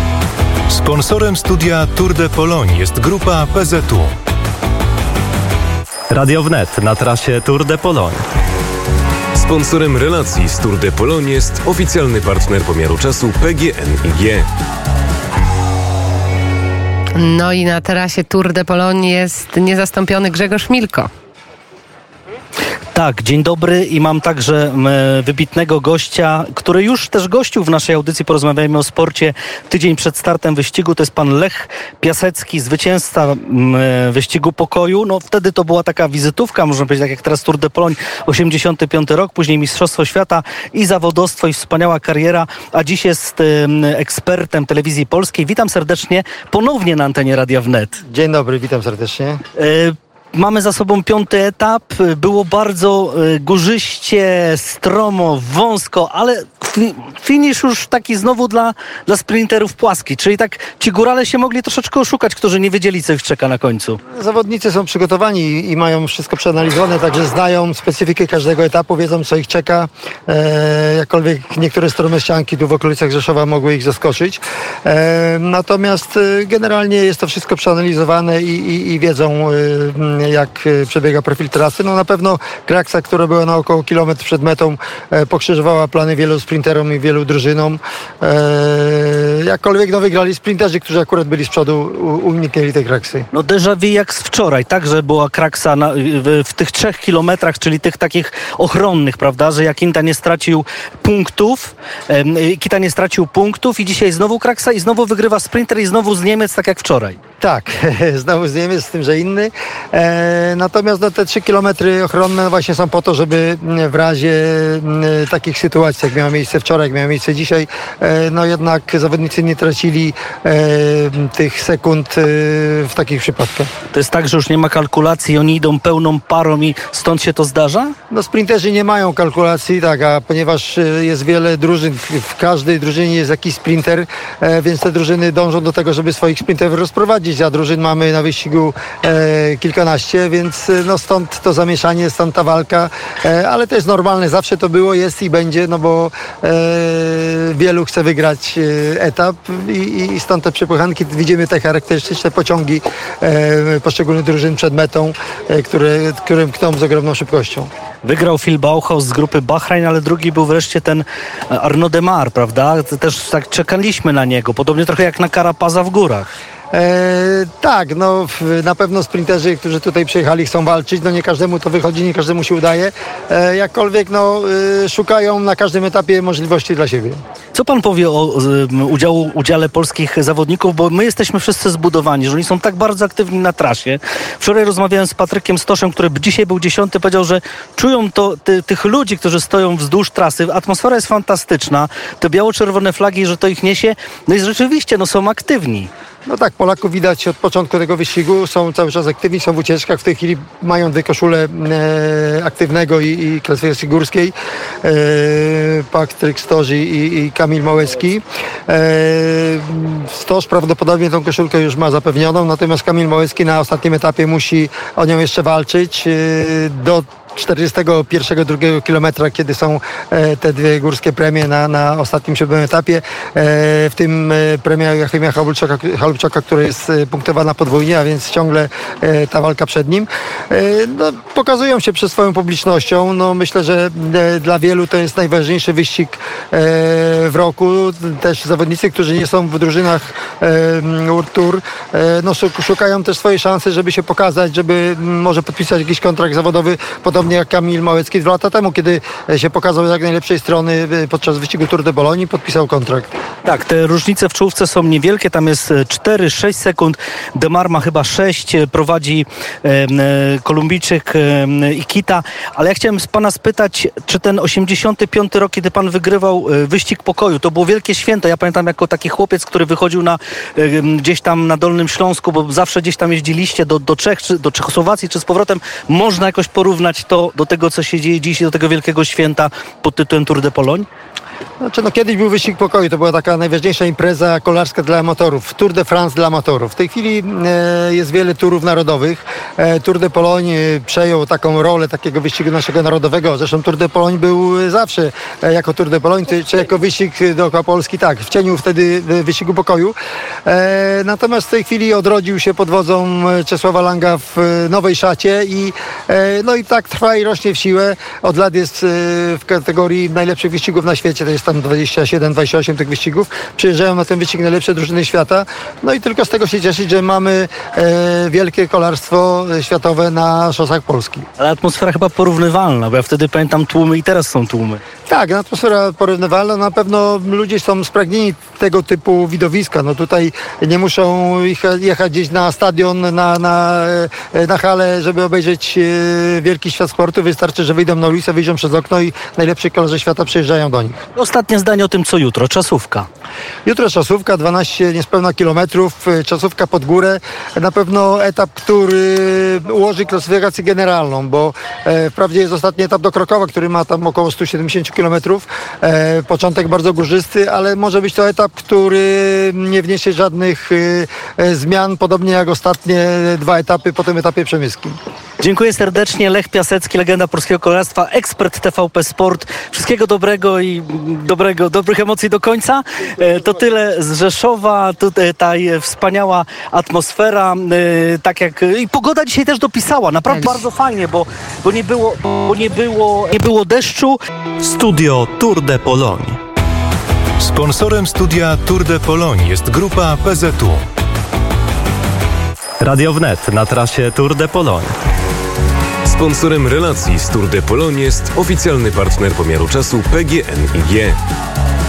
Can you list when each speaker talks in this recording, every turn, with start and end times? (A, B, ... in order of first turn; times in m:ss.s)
0:00.7-0:04.1 A
0:06.1-0:08.2 A
0:09.4-0:14.4 B
0:17.2-0:21.1 C
0:22.9-0:48.0 D
0:48.1-0:49.4 E
0:49.6-1:04.0 D
1:04.2-1:33.3 E
1:33.3-1:47.2 D
1:47.4-2:03.7 E
2:03.9-2:07.9 D
2:08.1-2:37.7 E
2:38.0-2:46.3 D
2:46.7-2:57.2 E
2:57.5-3:15.9 D
3:16.3-4:13.1 E
4:13.4-4:40.9 D
4:41.6-5:21.2 E
5:21.4-5:24.8 D
5:25.1-5:41.0 E
5:41.2-5:43.1 D
5:43.7-6:05.0 E
6:05.4-6:24.2 D
6:24.6-6:26.4 A
6:27.4-6:30.8 A
6:32.8-6:34.9 A
6:36.0-6:41.2 B